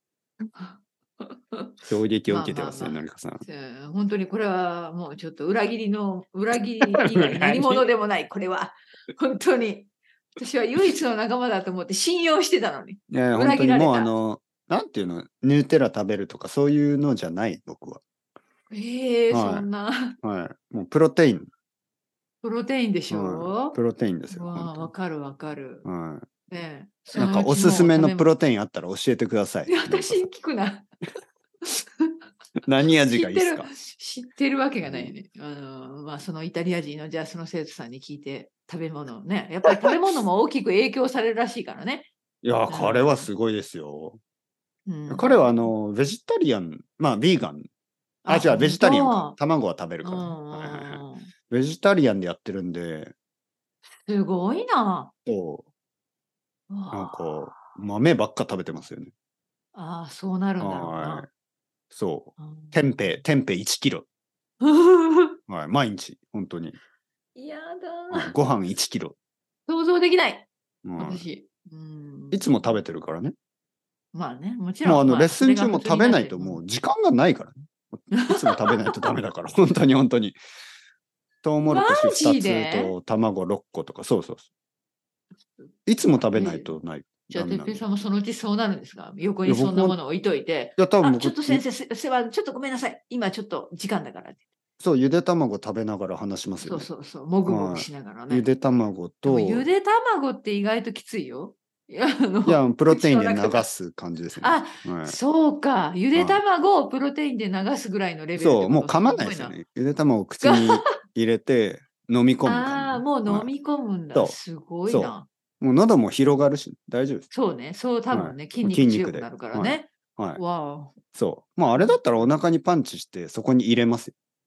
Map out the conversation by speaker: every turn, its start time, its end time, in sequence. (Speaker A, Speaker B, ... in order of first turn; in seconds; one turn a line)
Speaker A: 0.6-14.1
Speaker B: 1.9-3.4
Speaker B: 7.1-7.8
Speaker B: 13.1-18.0
Speaker A: 18.7-20.2
Speaker B: 19.3-19.7
Speaker B: 20.2-21.5
Speaker A: 22.4-23.8
Speaker B: 23.1-24.9
Speaker A: 24.3-25.9
Speaker B: 25.8-26.3
Speaker A: 26.5-28.3
Speaker B: 27.1-30.3
Speaker A: 29.7-30.9
Speaker A: 31.6-32.1
Speaker B: 32.6-33.7
Speaker A: 33.1-42.1
Speaker B: 34.8-35.1
Speaker B: 42.4-44.2
Speaker A: 42.7-43.3
Speaker A: 44.9-45.7
Speaker B: 45.1-47.7
Speaker A: 48.2-49.4
Speaker B: 48.3-53.1
Speaker A: 50.0-51.3
Speaker A: 54.0-55.1
Speaker B: 55.3-55.6
Speaker A: 56.7-57.8
Speaker B: 56.9-59.1
Speaker A: 59.7-61.3
Speaker B: 60.6-61.3
Speaker B: 61.9-64.1
Speaker A: 62.4-63.2
Speaker A: 64.6-65.4
Speaker B: 65.5-66.8
Speaker A: 67.4-68.3
Speaker B: 68.1-69.2
Speaker A: 69.7-70.5
Speaker B: 70.8-71.3
Speaker A: 71.0-72.8
Speaker B: 72.3-73.3
Speaker A: 74.1-76.6
Speaker B: 74.8-80.4
Speaker A: 78.1-79.1
Speaker B: 81.4-84.5
Speaker A: 81.6-82.9
Speaker B: 85.9-87.8
Speaker A: 86.3-86.8
Speaker A: 87.3-94.4
Speaker B: 89.5-90.0
Speaker B: 90.8-91.6
Speaker B: 94.8-96.9
Speaker A: 96.6-98.5
Speaker B: 97.5-99.7
Speaker A: 99.3-103.7
Speaker B: 102.5-105.2
Speaker A: 104.4-109.6
Speaker B: 106.2-106.4
Speaker B: 108.4-113.5
Speaker A: 110.4-110.9
Speaker A: 112.4-115.3
Speaker B: 114.9-117.3
Speaker A: 117.3-121.0
Speaker B: 118.1-120.4
Speaker B: 121.1-124.1
Speaker A: 121.7-122.4